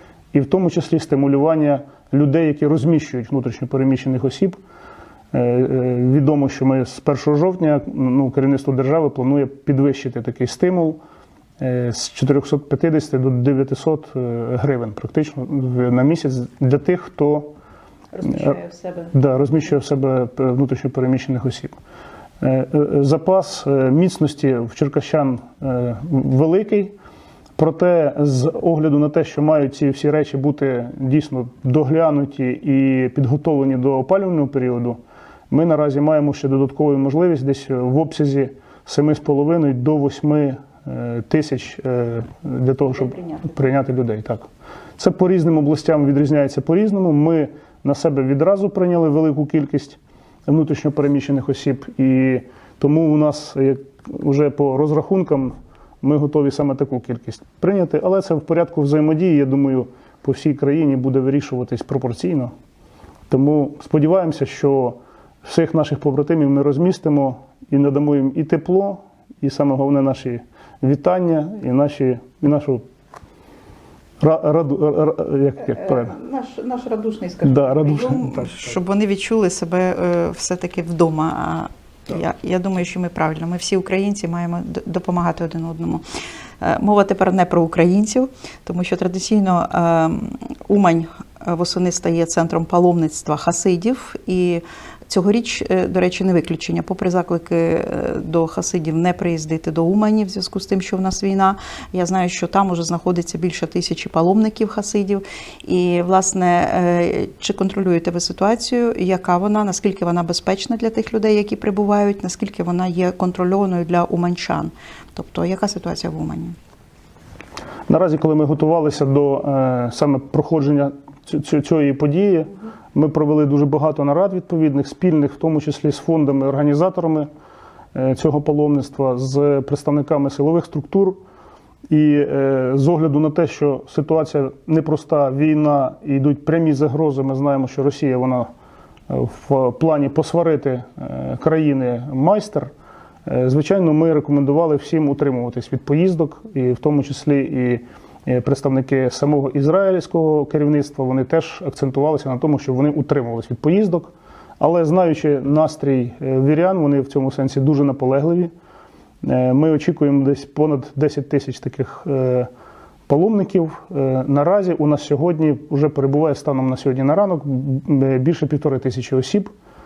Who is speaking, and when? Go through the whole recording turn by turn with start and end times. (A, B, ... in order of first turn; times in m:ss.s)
0:00.3-0:04.6 A
0:05.3-0:11.0 A
0:11.6-0:17.5 A
0:18.1-0:19.1 B
0:18.2-0:18.6 A
0:19.1-0:21.8 A
0:22.4-0:26.9 A
0:27.6-0:44.5 A
0:43.1-0:43.5 B
0:45.0-1:02.5 A
1:03.3-1:12.8 A
1:14.2-1:16.1 A
1:15.8-1:26.0 B
1:17.4-1:18.5 A
1:26.6-1:56.6 B
1:57.9-2:07.3 A
2:07.9-2:11.2 A
2:11.9-2:18.5 A
2:19.1-2:22.7 A
2:23.2-2:38.5 A
2:39.2-2:42.5 A
2:43.1-2:49.5 A